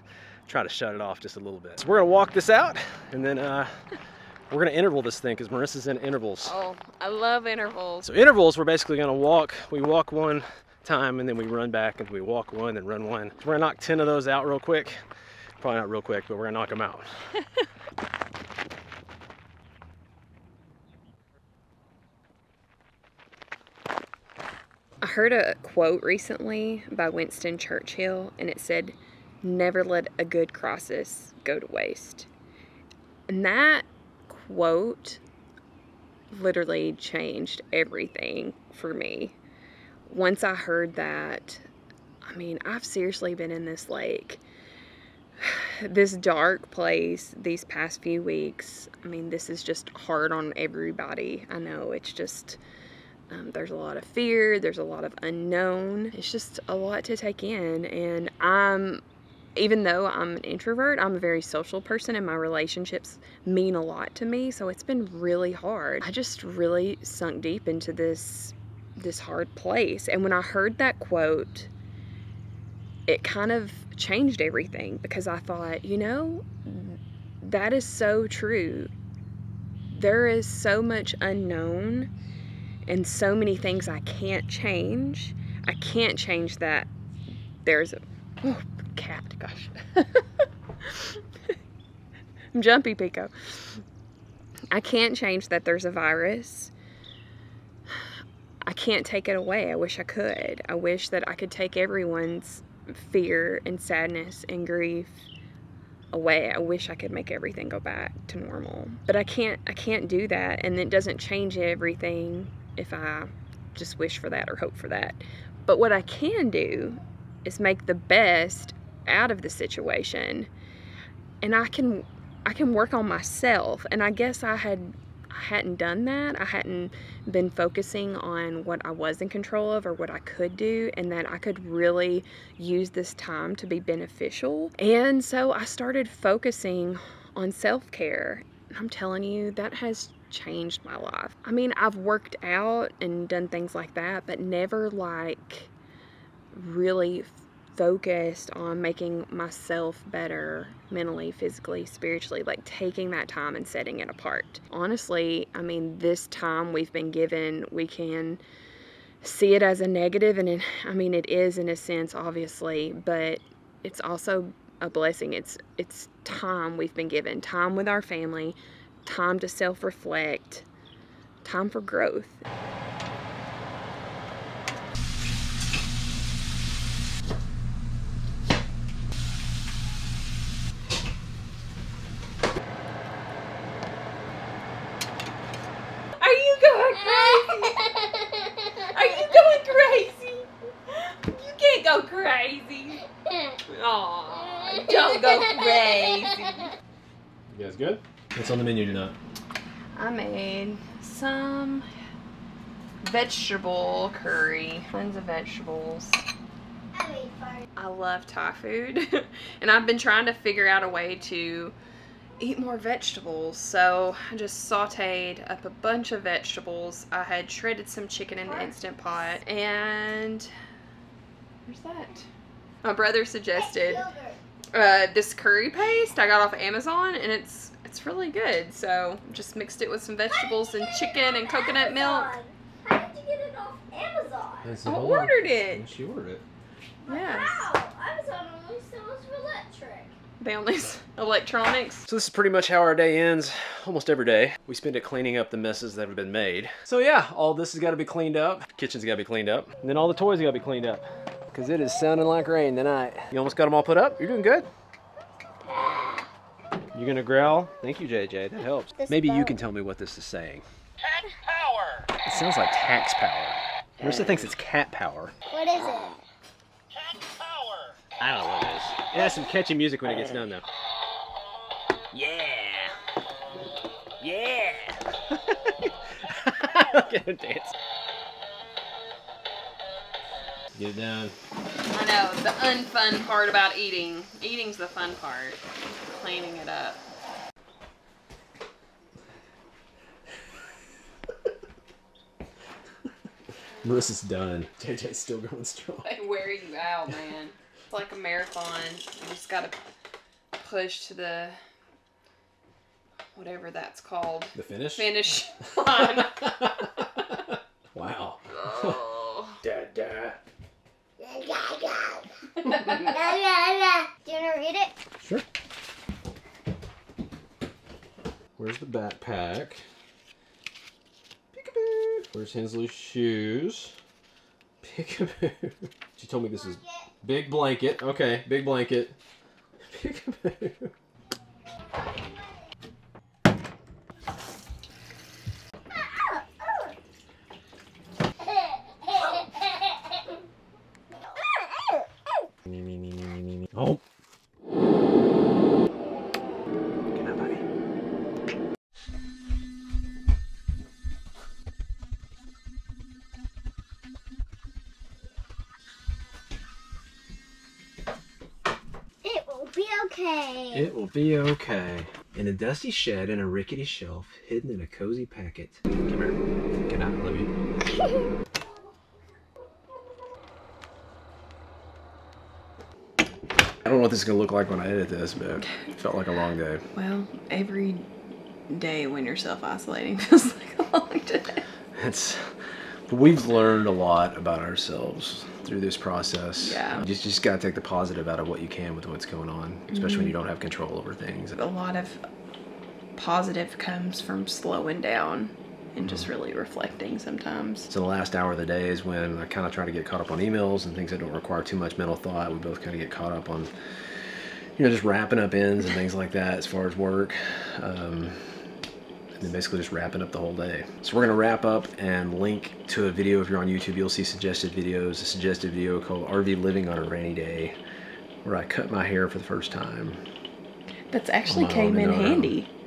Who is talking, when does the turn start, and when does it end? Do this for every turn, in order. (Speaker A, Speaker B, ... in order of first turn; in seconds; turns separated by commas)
Speaker A: 0.5-3.8, Speaker A: 4.5-6.5, Speaker B: 6.5-8.1, Speaker A: 8.0-15.0, Speaker A: 15.6-17.1, Speaker B: 25.0-32.3, Speaker B: 33.3-35.2, Speaker B: 36.3-39.4, Speaker B: 40.1-41.7, Speaker B: 42.2-44.4, Speaker B: 45.4-52.6, Speaker B: 53.3-59.0, Speaker B: 59.6-71.7, Speaker B: 73.1-78.9, Speaker B: 79.9-82.1, Speaker B: 82.9-86.9, Speaker B: 87.6-91.5, Speaker B: 92.5-93.8, Speaker B: 94.7-96.7, Speaker B: 98.7-105.3, Speaker B: 106.1-120.5, Speaker B: 121.4-145.7, Speaker B: 146.5-158.4, Speaker B: 159.2-170.7, Speaker B: 171.4-172.4, Speaker B: 186.2-188.0, Speaker B: 188.9-193.0, Speaker B: 193.7-196.7, Speaker A: 197.5-199.2, Speaker B: 200.0-201.9, Speaker B: 203.0-206.2, Speaker C: 206.9-207.6, Speaker B: 207.8-211.7, Speaker B: 212.4-220.5, Speaker C: 218.5-219.0, Speaker B: 221.7-222.3, Speaker B: 222.8-224.1, Speaker C: 223.6-224.4, Speaker B: 224.7-232.3, Speaker C: 230.4-234.7, Speaker A: 234.6-236.4, Speaker B: 234.9-235.8, Speaker C: 237.0-240.1, Speaker B: 237.1-237.7, Speaker B: 240.4-242.1, Speaker A: 242.1-254.7, Speaker A: 256.9-260.6, Speaker C: 259.0-259.6, Speaker A: 262.2-265.3, Speaker C: 265.5-266.2, Speaker A: 268.2-270.6, Speaker A: 272.1-272.9, Speaker A: 274.2-277.7, Speaker A: 280.7-281.3, Speaker B: 281.9-287.0, Speaker A: 293.8-296.1, Speaker B: 296.0-299.8, Speaker B: 300.6-301.6, Speaker B: 303.4-306.6, Speaker A: 304.6-305.1, Speaker A: 306.2-309.0, Speaker B: 308.5-309.6, Speaker A: 309.6-310.4, Speaker C: 311.2-314.9, Speaker A: 315.2-315.4, Speaker A: 318.6-319.8, Speaker A: 321.5-323.9, Speaker A: 324.8-329.1, Speaker C: 326.7-327.1, Speaker A: 329.9-330.9, Speaker C: 335.9-336.9, Speaker C: 341.3-342.1, Speaker A: 342.7-344.0, Speaker A: 347.1-347.6, Speaker C: 359.2-360.9, Speaker A: 360.7-367.5, Speaker A: 373.9-376.8, Speaker B: 376.9-378.1, Speaker B: 378.7-381.6, Speaker A: 382.0-382.5, Speaker A: 383.1-391.6, Speaker B: 386.6-387.1, Speaker B: 389.9-390.3, Speaker B: 391.6-392.2, Speaker B: 393.2-397.9, Speaker A: 397.9-403.7, Speaker A: 404.8-408.5, Speaker A: 409.4-417.8, Speaker A: 418.4-420.2, Speaker B: 421.1-422.7, Speaker A: 421.5-422.5